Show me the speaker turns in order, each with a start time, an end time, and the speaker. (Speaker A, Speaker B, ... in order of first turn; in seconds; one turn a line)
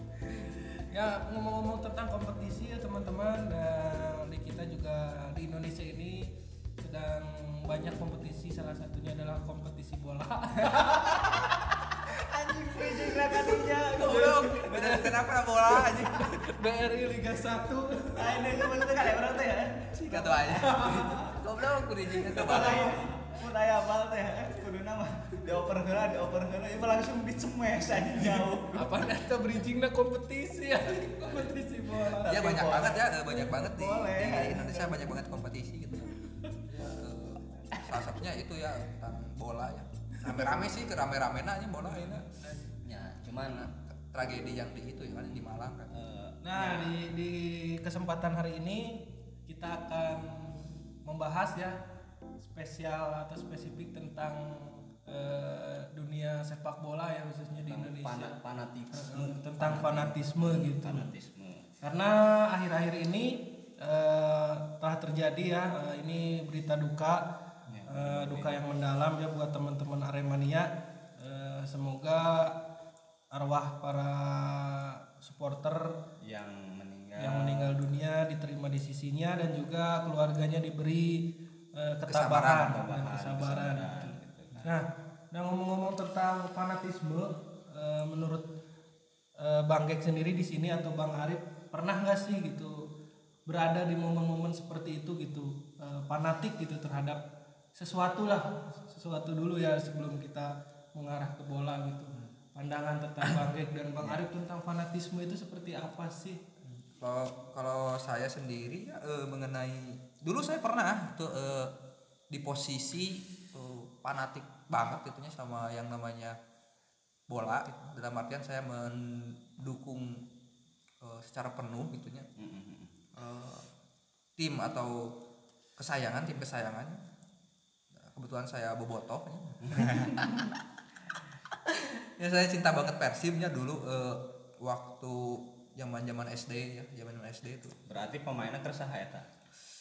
Speaker A: 0.4-11.7
Speaker B: 10.7-15.1
Speaker A: 12.2-18.9
Speaker C: 13.9-16.2
Speaker B: 18.1-21.1
Speaker C: 20.0-23.0
Speaker A: 20.1-22.9
Speaker B: 22.3-29.1
Speaker A: 28.7-34.1
Speaker C: 32.2-36.1
Speaker B: 33.7-34.8
Speaker A: 36.1-36.8
Speaker C: 36.7-42.2
Speaker B: 37.7-38.0
Speaker A: 41.8-42.8
Speaker B: 42.8-43.7
Speaker C: 43.4-45.9
Speaker B: 45.9-46.9
Speaker A: 46.4-51.8
Speaker A: 52.4-58.3
Speaker B: 57.6-61.7
Speaker A: 58.9-61.1
Speaker A: 61.8-67.2
Speaker B: 67.7-68.5
Speaker A: 67.9-72.5
Speaker A: 73.3-76.0
Speaker B: 76.2-77.7
Speaker A: 77.2-83.9
Speaker C: 82.1-82.7
Speaker B: 82.5-84.7
Speaker A: 84.6-88.5
Speaker A: 89.4-92.8
Speaker A: 93.5-97.2
Speaker A: 97.8-106.4
Speaker C: 106.7-111.7
Speaker C: 112.3-116.3
Speaker C: 117.3-120.2
Speaker C: 121.0-122.3
Speaker B: 122.4-122.9
Speaker C: 123.2-123.7
Speaker C: 124.4-124.9
Speaker C: 125.8-127.0
Speaker C: 127.9-130.3
Speaker B: 129.7-130.5
Speaker C: 131.7-137.8
Speaker B: 137.9-139.2